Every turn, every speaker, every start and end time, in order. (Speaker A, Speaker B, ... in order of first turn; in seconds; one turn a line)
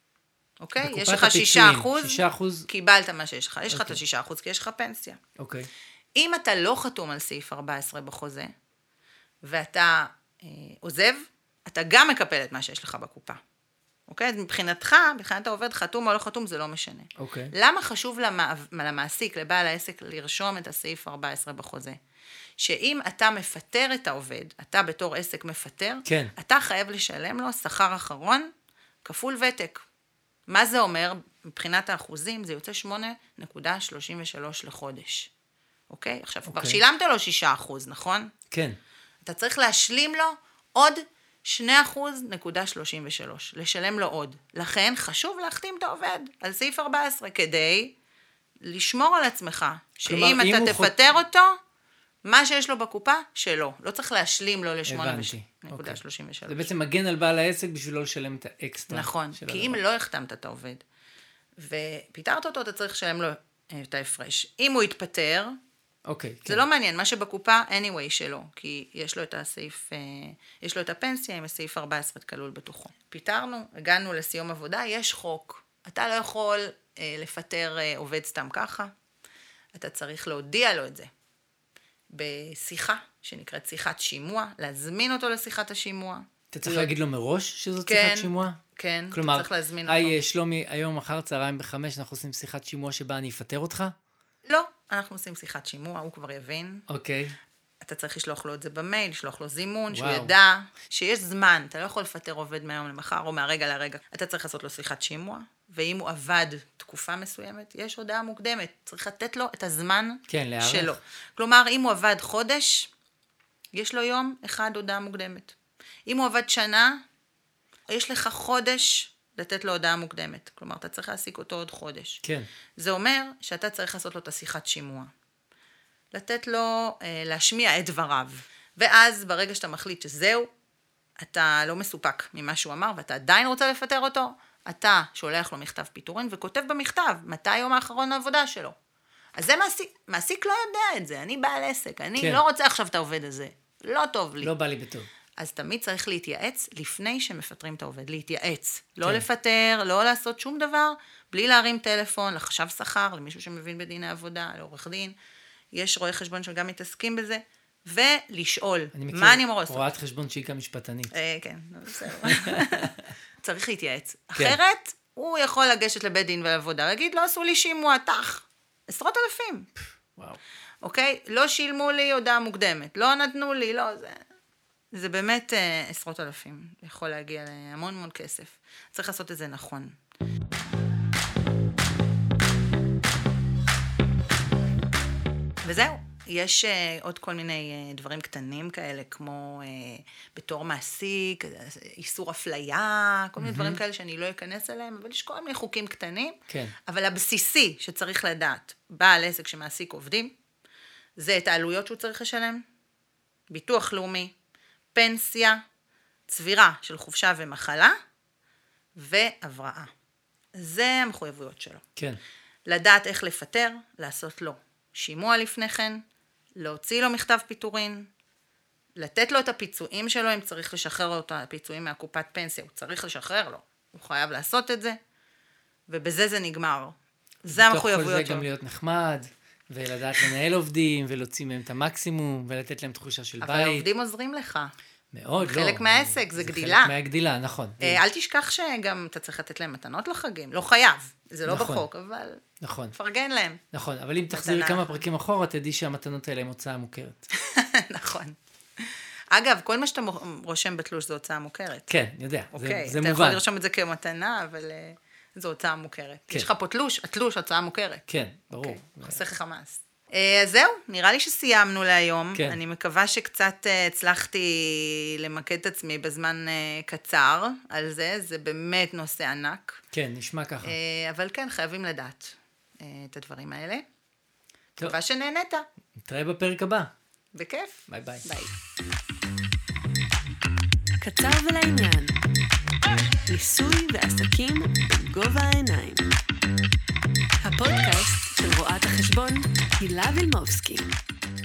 Speaker A: 0.6-5.2
Speaker B: 0.8-2.7
Speaker B: 3.7-4.0
Speaker B: 5.4-5.7
Speaker A: 6.2-8.5
Speaker A: 9.4-13.4
Speaker A: 14.1-22.0
Speaker B: 17.2-17.5
Speaker A: 22.6-28.5
Speaker B: 26.1-26.3
Speaker A: 29.0-29.8
Speaker A: 30.5-35.3
Speaker A: 35.9-38.3
Speaker B: 36.5-36.8
Speaker B: 38.5-38.8
Speaker A: 39.2-47.9
Speaker A: 48.6-51.6
Speaker B: 50.0-51.0
Speaker A: 52.2-56.7
Speaker B: 54.9-59.8
Speaker A: 58.9-60.8
Speaker A: 61.6-65.5
Speaker B: 66.1-66.6
Speaker A: 66.5-78.9
Speaker A: 79.7-81.1
Speaker A: 82.1-86.9
Speaker B: 86.5-88.6
Speaker A: 87.8-90.2
Speaker B: 89.1-93.9
Speaker A: 94.5-96.9
Speaker B: 96.9-97.4
Speaker A: 97.8-112.9
Speaker B: 99.9-100.3
Speaker B: 110.3-111.0
Speaker A: 113.7-115.5
Speaker A: 116.1-117.0
Speaker A: 117.9-122.2
Speaker B: 122.2-122.5
Speaker A: 122.8-125.1
Speaker A: 126.1-130.5
Speaker A: 131.2-138.8
Speaker A: 139.4-144.5
Speaker B: 142.2-142.4
Speaker B: 144.4-145.1
Speaker A: 145.4-155.2
Speaker A: 155.7-159.9
Speaker B: 158.9-161.1
Speaker A: 161.1-169.7
Speaker B: 162.2-162.9
Speaker A: 170.8-174.2
Speaker A: 174.9-180.0
Speaker A: 185.6-200.3
Speaker B: 193.4-193.8
Speaker B: 196.5-196.8
Speaker A: 201.2-202.6
Speaker A: 203.5-204.3
Speaker A: 204.9-205.6
Speaker A: 206.3-207.9
Speaker A: 208.9-209.9
Speaker A: 210.6-211.8
Speaker A: 212.7-216.0
Speaker A: 216.6-218.1
Speaker A: 219.0-225.0
Speaker A: 225.9-228.5
Speaker B: 227.5-233.9
Speaker A: 233.4-234.7
Speaker B: 235.1-238.0
Speaker A: 235.4-236.9
Speaker A: 237.8-242.4
Speaker B: 241.5-241.9
Speaker B: 242.6-242.9
Speaker A: 242.9-243.6
Speaker B: 243.7-247.2
Speaker A: 244.3-245.0
Speaker A: 247.3-251.9
Speaker B: 251.9-253.4
Speaker A: 252.5-269.8
Speaker B: 258.1-259.2
Speaker B: 262.3-262.6
Speaker B: 269.9-270.8
Speaker A: 270.6-273.8
Speaker A: 274.8-275.7
Speaker B: 276.0-276.9
Speaker A: 277.3-278.5
Speaker B: 277.9-278.3
Speaker C: 281.0-282.2
Speaker C: 283.3-286.1
Speaker C: 287.4-290.9